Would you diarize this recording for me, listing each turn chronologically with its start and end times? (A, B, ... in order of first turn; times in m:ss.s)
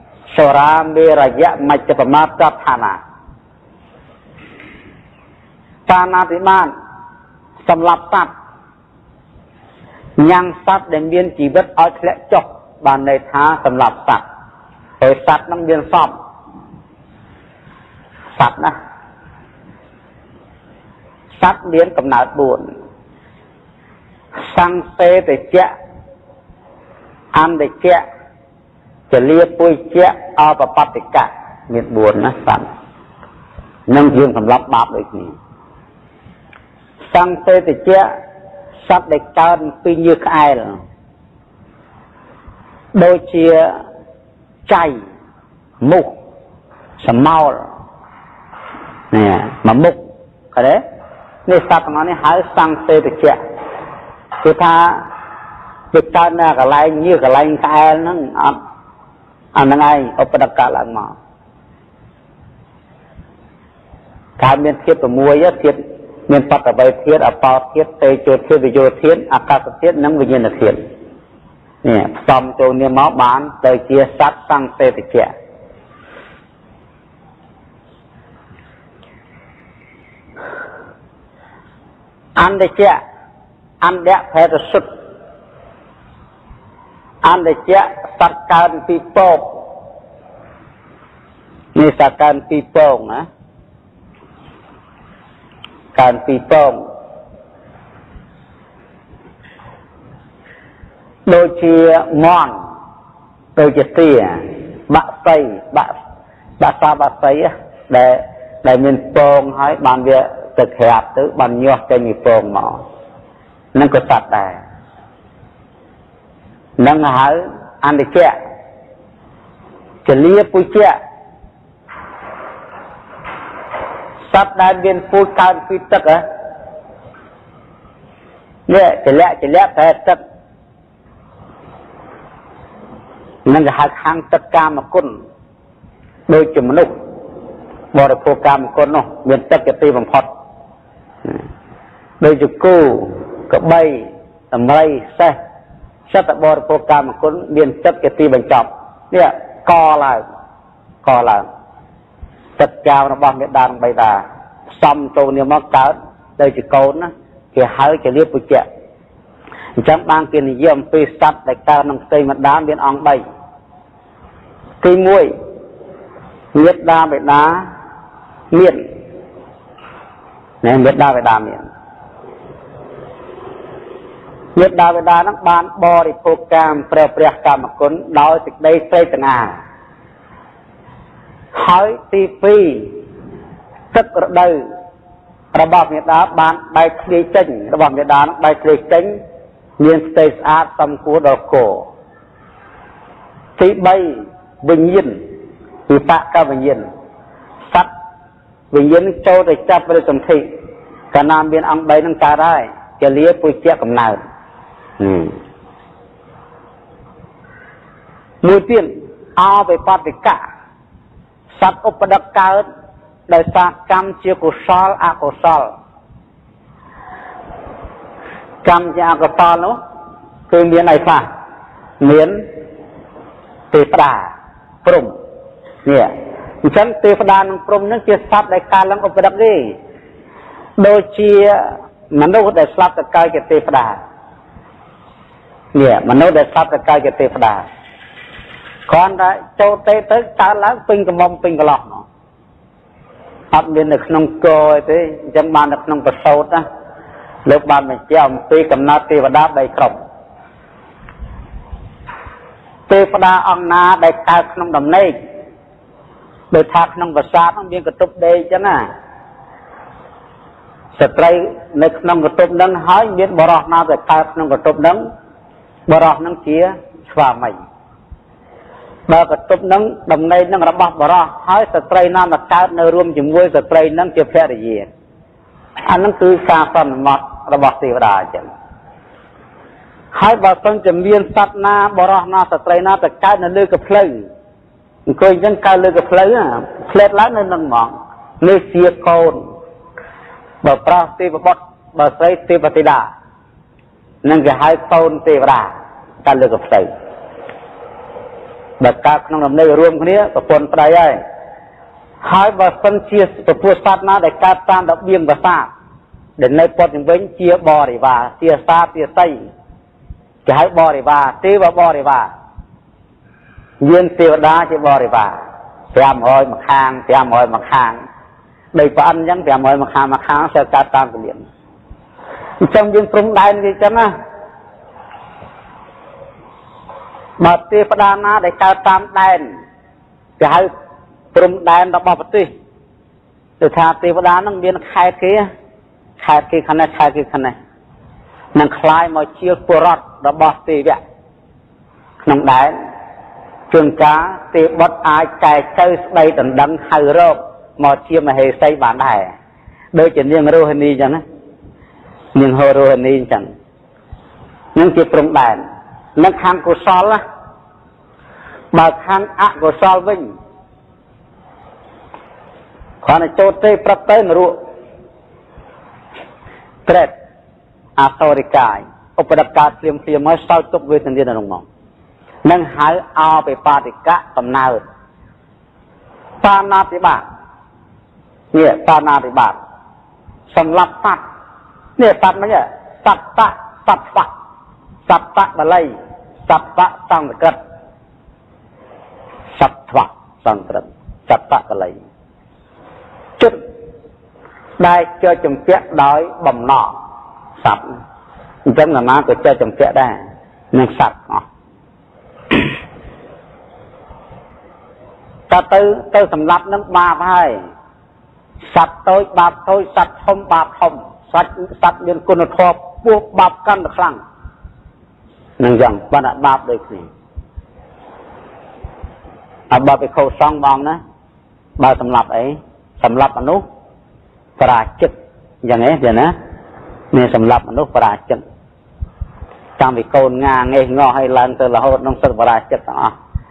0:00.3-0:03.0 A
0:05.9-0:06.7 A
0:07.6-0:08.3 A
0:10.2-0:14.2 A
0:15.0-0:16.1 A
0:18.4-0:18.8 A
0:21.4-0:22.7 A
0:24.5-0:25.7 A
0:27.3-0:28.0 A
0:29.1-0:32.7 A
0:33.9-0:35.3 A
0:37.1-0:38.1 A
0:38.8-0:40.8 A
0:43.0-0:43.7 A
0:44.7-0:45.0 A
0:45.8-0:46.1 A
0:47.0-0:47.6 A
0:49.1-0:50.0 A
0:50.5-0:50.8 A
0:51.5-0:53.4 A
0:54.4-0:55.0 A
0:55.9-0:58.6 A
0:59.6-1:01.2 A
1:04.4-1:10.8 A
1:11.8-1:15.3 A
1:22.4-1:23.0 A
1:23.8-1:24.9 A
1:27.2-1:29.6 A
1:31.8-1:33.3 A
1:36.0-1:36.8 A
1:41.3-1:42.5 A
1:43.6-1:45.9 A
1:46.6-1:52.8 A
1:53.8-1:54.6 A
1:56.8-1:58.3 A
2:00.0-2:01.0 A
2:04.3-2:06.2 A
2:08.7-2:10.2 A
2:13.5-2:15.1 A
2:16.3-2:16.9 A
2:17.9-2:20.3 A
2:22.2-2:25.4 A
2:26.1-2:30.2 A
2:31.0-2:31.4 A
2:32.6-2:34.2 A
2:34.8-2:38.6 A
2:39.8-2:43.2 A
2:44.8-2:45.3 A
2:46.5-2:47.7 A
2:48.5-2:48.8 A
2:50.6-2:51.6 A
2:54.6-2:59.6 A
3:01.6-3:02.9 A
3:03.9-3:04.6 A
3:05.5-3:09.1 A
3:09.8-3:11.9 A
3:13.6-3:15.2 A
3:15.9-3:16.8 A
3:18.7-3:20.4 A
3:21.1-3:24.2 A
3:25.0-3:25.3 A
3:28.4-3:30.4 A
3:31.6-3:32.6 A
3:33.3-3:35.7 A
3:38.6-3:39.8 A
3:40.5-3:41.3 A
3:42.0-3:42.4 A
3:43.7-3:44.3 A
3:44.8-3:45.1 A
3:45.8-3:46.1 A
3:46.6-3:49.7 A
3:50.8-3:54.0 A
3:55.7-3:57.6 A
3:58.9-4:02.0 A
4:03.5-4:06.6 A
4:07.5-4:09.9 A
4:12.9-4:15.1 A
4:16.5-4:18.8 A
4:21.0-4:25.0 A
4:25.9-4:27.6 A
4:29.1-4:34.9 A
4:35.9-4:38.5 A
4:40.1-4:44.2 A
4:45.1-4:49.4 A
4:50.6-4:53.1 A
4:54.2-4:55.7 A
4:56.2-4:56.9 A
4:58.8-5:01.2 A
5:02.2-5:05.7 A
5:06.4-5:09.4 A
5:10.5-5:12.3 A
5:13.8-5:15.4 A
5:15.9-5:18.0 A
5:18.7-5:21.4 A
5:22.6-5:24.1 A
5:27.4-5:29.5 A
5:30.4-5:30.7 A
5:31.3-5:32.5 A
5:33.6-5:35.5 A
5:36.2-5:37.6 A
5:38.6-5:41.0 A
5:42.2-5:42.7 A
5:43.7-5:49.3 A
5:49.9-5:51.2 A
5:52.4-5:53.5 A
5:54.8-5:55.6 A
5:56.2-5:57.2 A
5:58.7-6:00.3 A
6:03.0-6:04.6 A
6:06.9-6:07.1 A
6:08.0-6:11.6 A
6:12.4-6:14.8 A
6:16.4-6:17.2 A
6:18.5-6:19.6 A
6:20.5-6:21.2 A
6:22.0-6:24.3 A
6:25.1-6:25.9 A
6:26.5-6:27.6 A
6:29.6-6:32.0 A
6:34.8-6:36.9 A
6:37.6-6:38.0 A
6:38.7-6:40.2 A
6:40.7-6:41.4 A
6:45.5-6:47.6 A
6:48.7-6:54.2 A
6:55.6-6:57.1 A
6:59.7-7:01.0 A
7:01.8-7:03.6 A
7:04.6-7:05.1 A
7:05.6-7:06.3 A
7:07.1-7:08.4 A
7:09.8-7:13.1 A